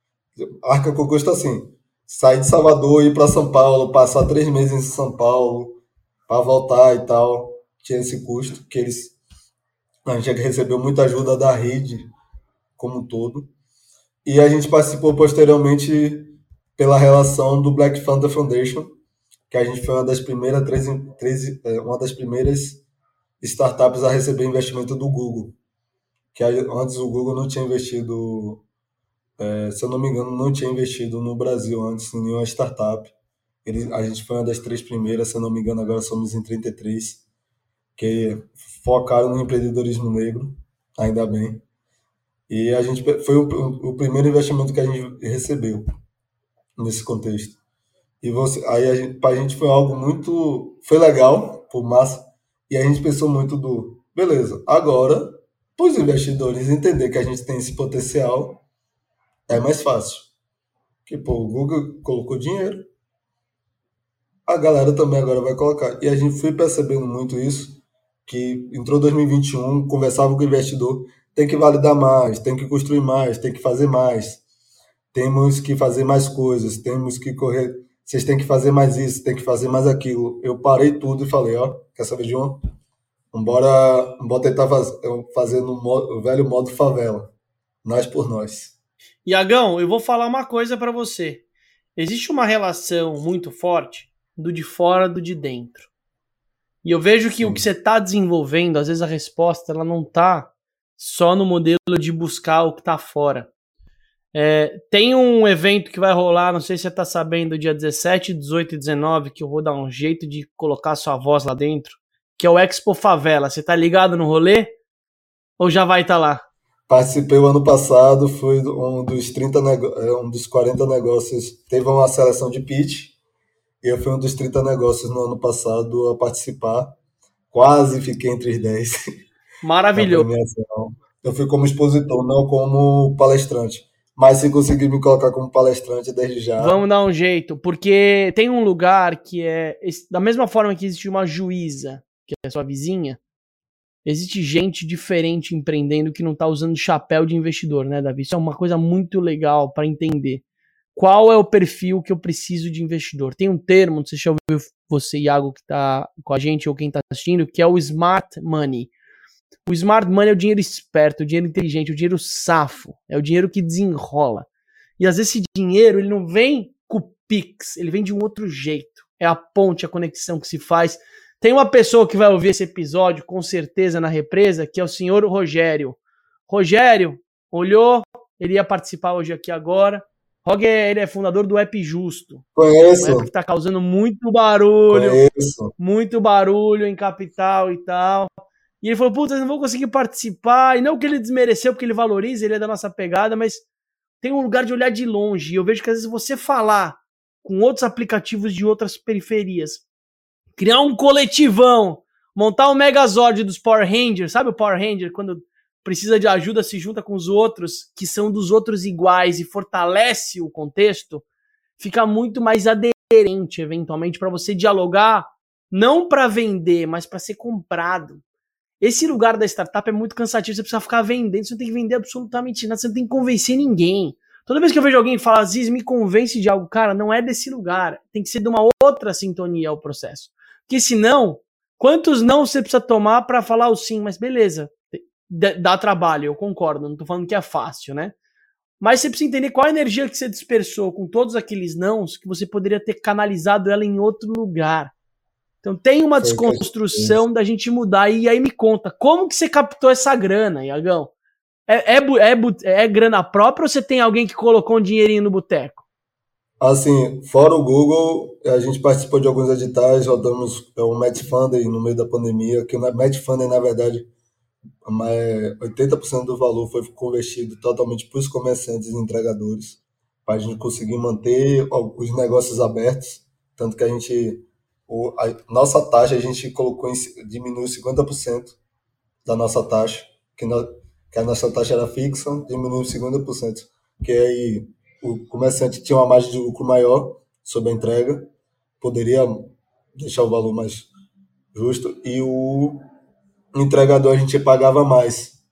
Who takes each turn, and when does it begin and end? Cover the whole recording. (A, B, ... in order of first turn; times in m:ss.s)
0:00.4-0:09.2 A
0:10.1-0:12.1 A
0:12.8-0:13.5 A
0:14.2-0:18.9 A
0:19.5-0:22.8 A
0:23.4-0:25.6 A
0:26.3-0:28.6 A
0:29.4-0:33.1 A
0:33.6-0:37.2 A
0:38.0-0:41.6 A
0:42.5-0:45.8 A
0:46.8-0:47.6 A
0:48.2-0:58.6 A
0:59.5-1:00.3 A
1:01.1-1:02.9 A
1:04.5-1:14.4 A
1:15.1-1:22.6 A
1:23.3-1:27.3 A
1:27.8-1:28.7 A
1:29.3-1:31.4 B
1:32.0-1:35.9 B
1:36.8-1:43.5 B
1:44.3-1:54.8 B
1:55.6-1:56.4 B
1:56.9-2:03.2 A
2:03.8-2:07.0 A
2:07.5-2:09.0 A
2:09.6-2:10.3 B
2:10.0-2:16.8 A
2:16.6-2:23.2 B
2:24.0-2:30.4 B
2:31.0-2:38.9 B
2:39.7-2:44.5 B
2:45.0-3:02.5 B
3:02.6-3:03.3 A
3:03.0-3:05.2 B
3:04.9-3:05.7 A
3:05.8-3:13.6 B
3:14.2-3:19.8 B
3:20.6-3:31.2 B
3:31.8-3:38.2 B
3:38.8-3:58.2 B
3:58.8-4:04.9 B
4:05.6-4:11.1 B
4:06.2-4:07.2 A
4:11.7-4:15.8 B
4:16.6-4:24.1 A
4:24.8-4:38.6 A
4:39.2-4:48.3 A
4:48.8-4:50.9 A
4:51.5-4:52.8 A
4:53.6-4:55.4 A